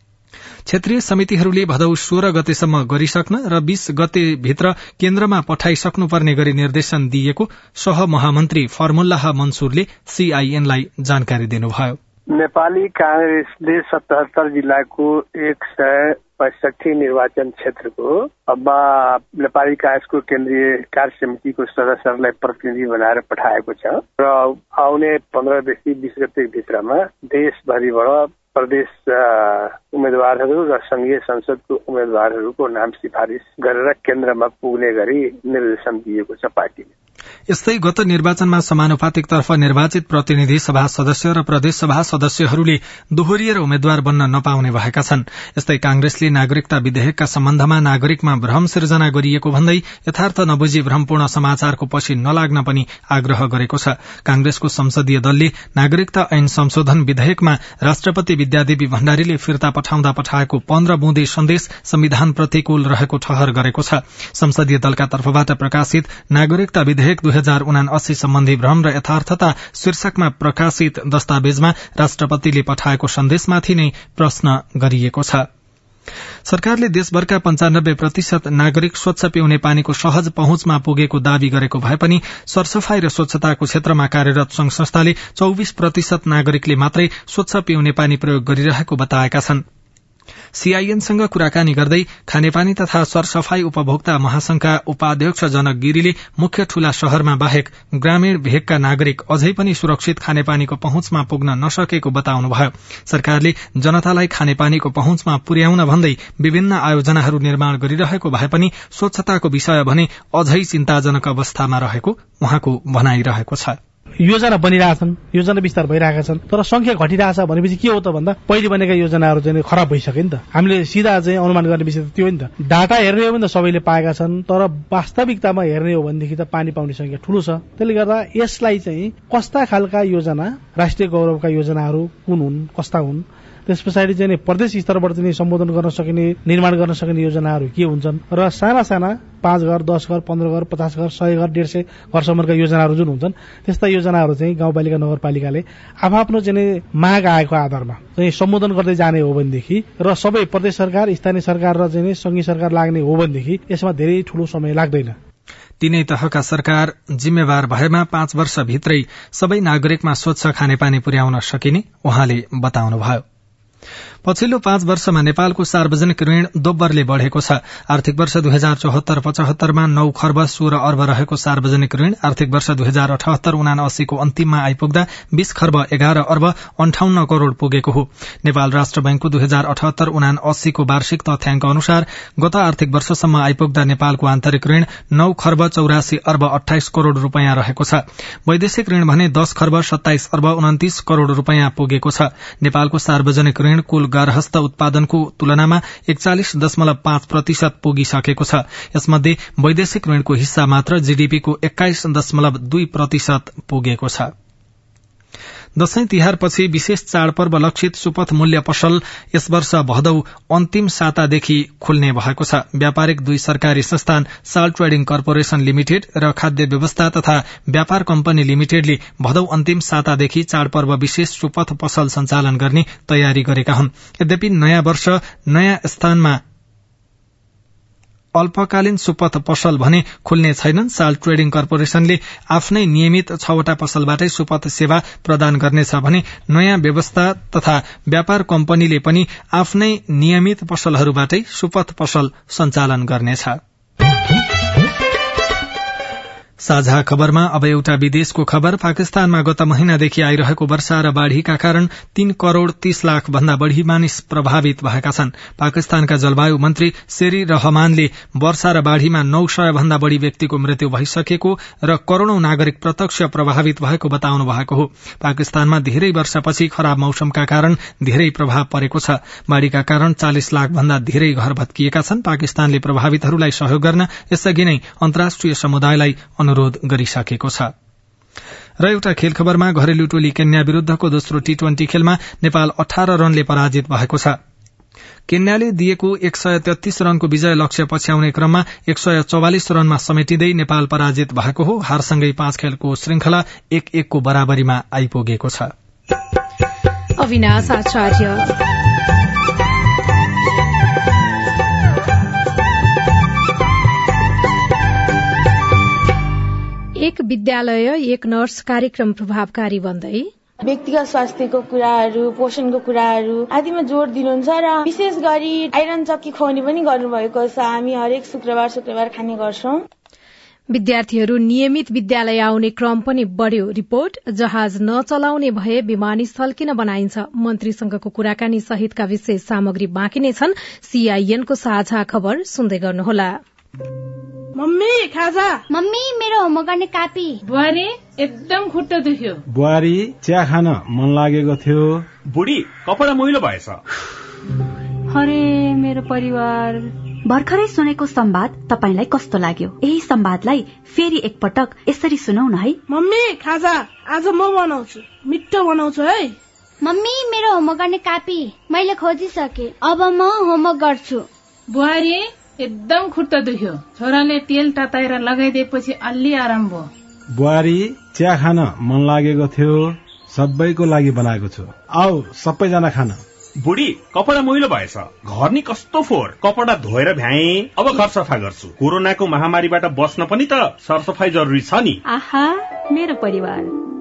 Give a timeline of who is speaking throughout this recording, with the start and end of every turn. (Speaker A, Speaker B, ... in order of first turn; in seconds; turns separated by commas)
Speaker A: 0.7-12.0, Speaker B: 12.3-36.9, Speaker A: 37.5-75.5, Speaker A: 76.5-89.6, Speaker A: 90.6-113.8, Speaker C: 114.2-155.2, Speaker A: 155.8-163.2, Speaker A: 164.2-204.3, Speaker A: 205.8-226.4, Speaker A: 228.4-243.6, Speaker A: 246.6-277.7, Speaker A: 278.8-284.4, Speaker A: 285.3-295.7, Speaker D: 297.2-298.5, Speaker D: 307.0-310.3, Speaker E: 310.6-319.8, Speaker D: 320.7-333.4, Speaker F: 334.6-335.6, Speaker G: 335.7-337.4, Speaker F: 337.5-339.4, Speaker H: 339.5-342.1, Speaker I: 342.3-343.8, Speaker J: 347.2-352.8, Speaker F: 352.9-356.3, Speaker G: 356.8-361.2, Speaker F: 361.7-366.9, Speaker H: 367.3-373.2, Speaker I: 373.6-382.0, Speaker J: 382.1-383.7